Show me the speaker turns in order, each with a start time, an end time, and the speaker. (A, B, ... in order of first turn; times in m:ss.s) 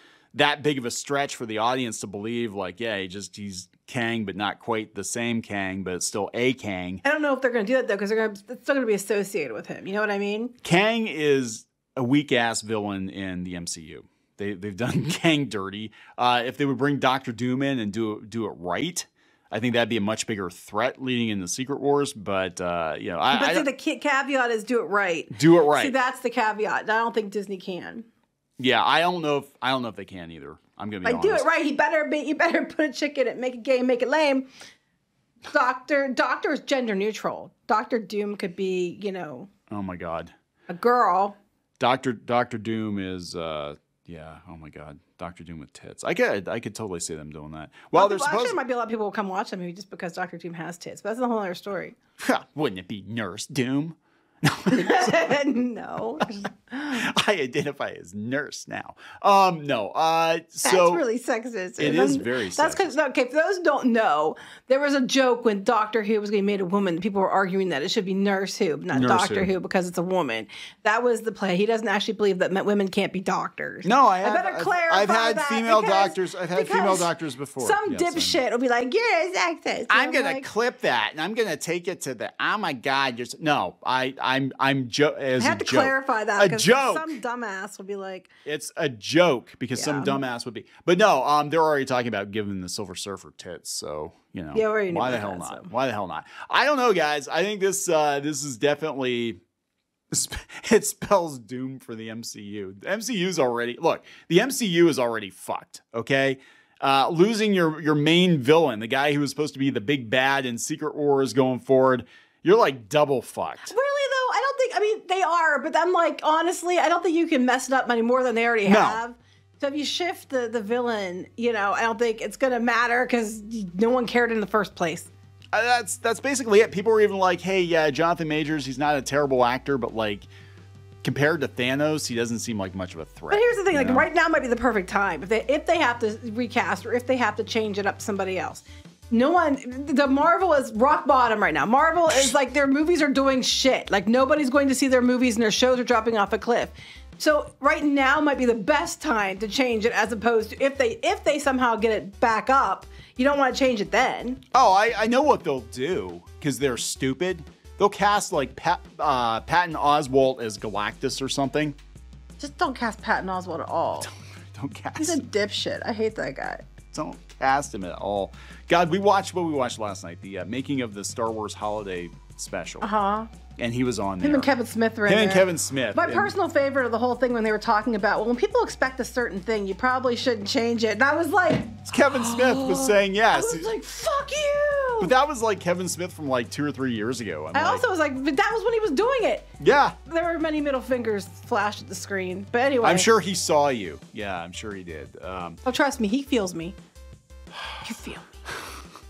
0:00.3-0:07.0 A
0:07.0-0:10.6 B
0:10.6-0:23.7 A
0:23.3-0:28.1 B
0:25.3-0:25.9 A
0:28.6-0:31.5 A
0:31.0-0:34.5 B
0:35.5-0:39.5 B
0:39.7-0:40.3 A
0:40.7-0:41.4 B
0:41.8-0:48.6 A
0:48.0-0:52.0 B
0:52.2-0:55.3 A
0:54.7-0:57.1 B
0:56.9-1:01.0 A
1:00.6-1:20.5 B
1:01.8-1:03.0 A
1:08.9-1:09.5 A
1:13.8-1:18.4 A
1:19.9-1:27.2 A
1:25.4-1:28.3 B
1:28.4-1:39.4 A
1:29.8-1:30.2 B
1:34.5-1:35.7 B
1:40.1-1:53.7 A
1:53.7-2:05.1 B
1:58.7-1:59.0 A
2:05.5-2:10.3 A
2:11.0-2:14.1 A
2:13.3-2:34.4 B
2:34.5-2:41.8 A
2:42.4-2:44.1 B
2:44.0-2:45.2 A
2:45.0-2:46.6 B
2:46.9-2:52.9 A
2:52.8-2:53.3 B
2:53.6-2:54.5 A
2:54.2-3:05.1 B
2:55.1-2:56.3 A
3:01.9-3:03.7 A
3:05.0-3:07.8 A
3:07.5-3:09.5 B
3:09.6-3:10.0 A
3:10.1-3:13.1 B
3:12.8-3:15.6 A
3:15.6-3:16.8 B
3:17.8-3:18.3 B